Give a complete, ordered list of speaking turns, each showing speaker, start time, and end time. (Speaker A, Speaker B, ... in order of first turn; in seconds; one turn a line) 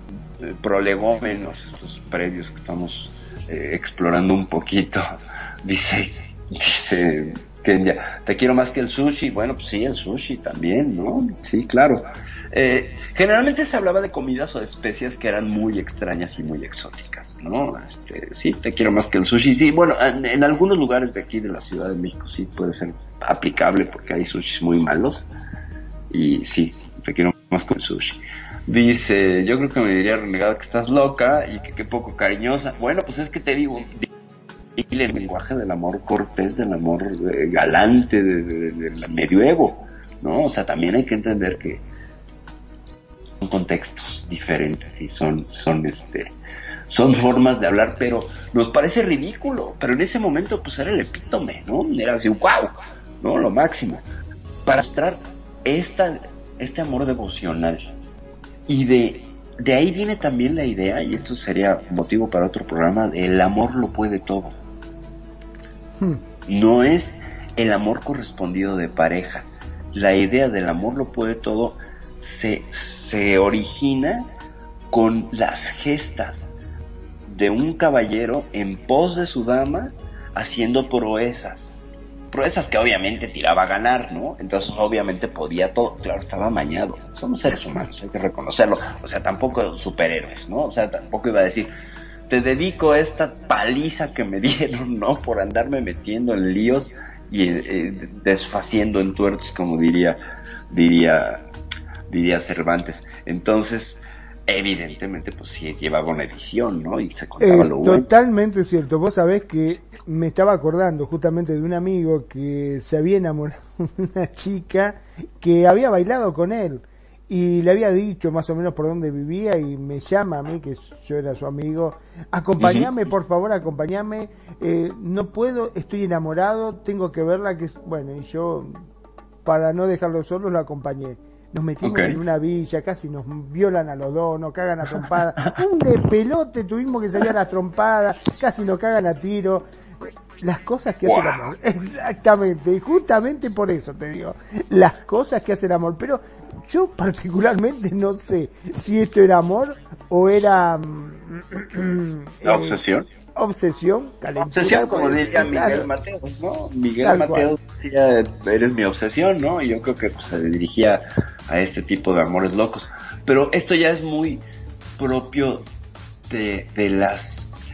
Speaker A: 0.4-5.0
Speaker A: 5.6-25.2
Speaker A: 26.1-34.1
Speaker A: 34.8-41.8
Speaker A: 43.4-46.3
Speaker A: 46.9-54.0
Speaker A: 54.6-57.9
Speaker A: 58.7-64.5
Speaker A: 66.5-74.3
Speaker A: 74.9-76.5
Speaker A: 77.3-81.8
Speaker A: 82.3-91.7
Speaker A: 92.3-100.2
Speaker A: 100.7-101.4
Speaker A: 102.1-108.1
Speaker B: 107.4-128.8
Speaker A: 122.6-122.9
Speaker B: 129.4-139.6
Speaker A: 131.8-132.2
Speaker B: 140.4-152.8
Speaker A: 141.0-141.5
Speaker A: 152.4-153.1
Speaker B: 153.3-155.9
Speaker A: 154.3-164.4
Speaker B: 157.0-157.5
Speaker A: 165.0-165.7
Speaker A: 166.3-167.5